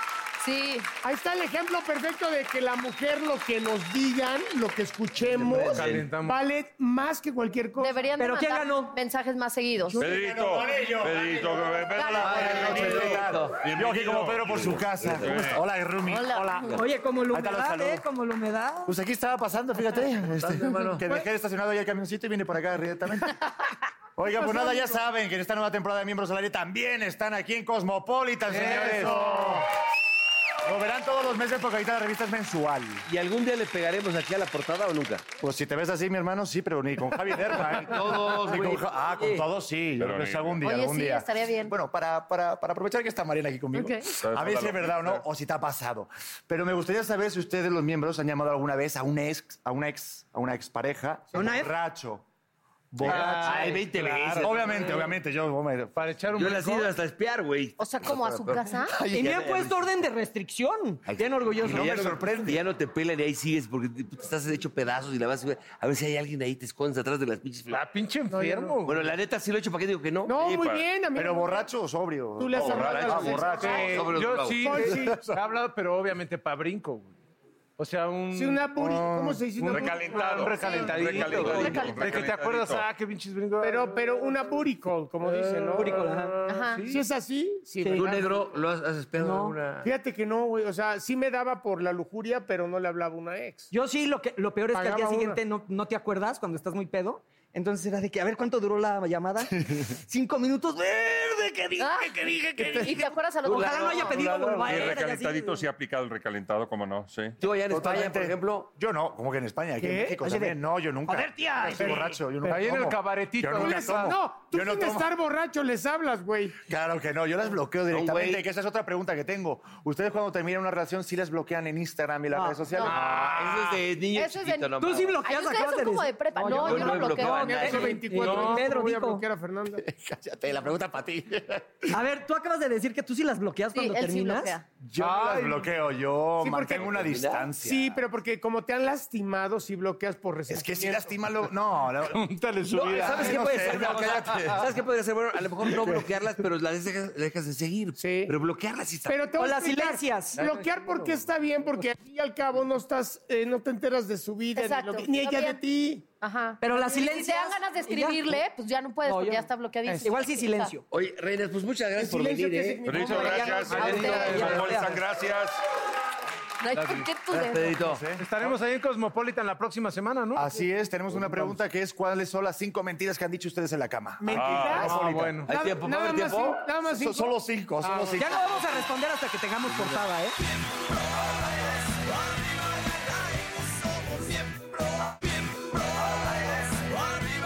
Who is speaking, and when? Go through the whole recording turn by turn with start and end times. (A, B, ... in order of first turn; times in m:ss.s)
0:00.4-0:00.9 A
0:01.0-0:08.1 B
0:05.3-0:06.1 C
0:05.5-0:06.4 D
0:07.8-0:10.0 A
0:08.2-0:09.0 E
0:10.0-0:18.0 F
0:10.0-0:12.9 G
0:12.0-0:13.0 A
0:12.2-0:13.6 C
0:13.6-0:15.6 G
0:16.0-0:16.8 A
0:16.7-0:18.9 E
0:18.8-0:23.3 F
0:20.2-0:21.2 C
0:24.2-0:29.6 F
0:28.5-0:29.6 D
0:30.6-0:33.0 F
0:33.0-0:35.2 C
0:35.4-0:52.2 F
0:37.7-0:39.4 C
0:40.0-0:40.6 G
0:40.6-0:41.7 A
0:43.7-0:44.0 A
0:44.2-0:45.2 G
0:51.3-0:51.7 E
0:52.9-0:53.8 F
0:53.0-0:55.0 D
0:53.0-0:55.0 C
0:54.4-0:56.0 F
0:55.9-0:56.9 D
0:56.3-0:59.8 C
0:57.8-0:58.9 A
0:59.0-1:02.0 E
1:01.0-1:07.8 C
1:01.6-1:02.6 F
1:07.7-1:09.0 D
1:08.3-1:08.8 B
1:08.8-1:10.4 C
1:10.2-1:11.7 B
1:10.4-1:10.9 G
1:11.1-1:14.0 F
1:12.4-1:14.1 B
1:12.6-1:14.7 C
1:13.5-1:17.1 D
1:14.6-1:15.2 B
1:14.8-1:15.4 F
1:17.8-1:24.1 D
1:18.3-1:21.2 B
1:18.8-1:19.4 F
1:19.7-1:22.8 G
1:20.6-1:22.1 A
1:23.6-1:28.2 B
1:25.2-1:26.2 D
1:25.7-1:26.4 E
1:26.4-1:26.8 A
1:26.7-1:27.0 D
1:27.8-1:28.2 E
1:28.0-1:29.9 C
1:29.2-1:29.6 E
1:29.8-1:33.7 B
1:33.7-1:45.6 E
1:34.7-1:35.4 B
1:41.8-1:44.2 A
1:44.1-1:44.8 F
1:44.6-1:47.4 G
1:47.4-1:48.7 C
1:47.7-1:55.1 F
1:49.8-1:50.5 B
1:51.1-1:52.0 E
1:51.8-1:52.5 B
1:51.9-1:54.1 D
1:53.6-1:56.6 B
1:56.7-2:03.1 F
1:57.9-1:58.4 C
2:02.3-2:02.7 E
2:02.8-2:03.8 D
2:03.0-2:05.2 C
2:04.1-2:07.6 A
2:04.8-2:09.2 E
2:06.5-2:08.0 C
2:07.2-2:09.8 B
2:08.2-2:08.6 D
2:10.0-2:11.4 C
2:11.9-2:14.5 E
2:13.7-2:14.6 A
2:14.8-2:17.9 F
2:15.0-2:15.7 D
2:16.4-2:17.0 B
2:16.8-2:17.5 C
2:17.6-2:21.2 B
2:20.5-2:24.6 F
2:22.0-2:23.9 D
2:22.7-2:29.2 C
2:23.6-2:24.0 E
2:28.0-2:28.4 B
2:29.1-2:36.0 B
2:29.3-2:30.5 E
2:34.6-2:35.6 A
2:36.2-2:40.7 A
2:36.6-2:38.4 E
2:39.0-2:39.5 E
2:40.0-2:40.8 E
2:40.9-2:43.1 C
2:41.9-2:44.6 B
2:42.8-2:45.6 G
2:43.1-2:45.0 E
2:43.6-2:44.8 D
2:46.6-2:47.8 A
2:46.7-2:47.1 D
2:47.3-2:48.2 F
2:47.4-2:48.0 C
2:48.2-2:50.6 D
2:50.3-2:55.4 F
2:51.2-2:51.5 D
2:54.2-2:57.3 B
2:54.3-2:54.9 G
2:54.7-2:55.5 D
2:55.5-2:56.6 C
2:56.9-2:58.6 F
2:58.1-3:00.4 E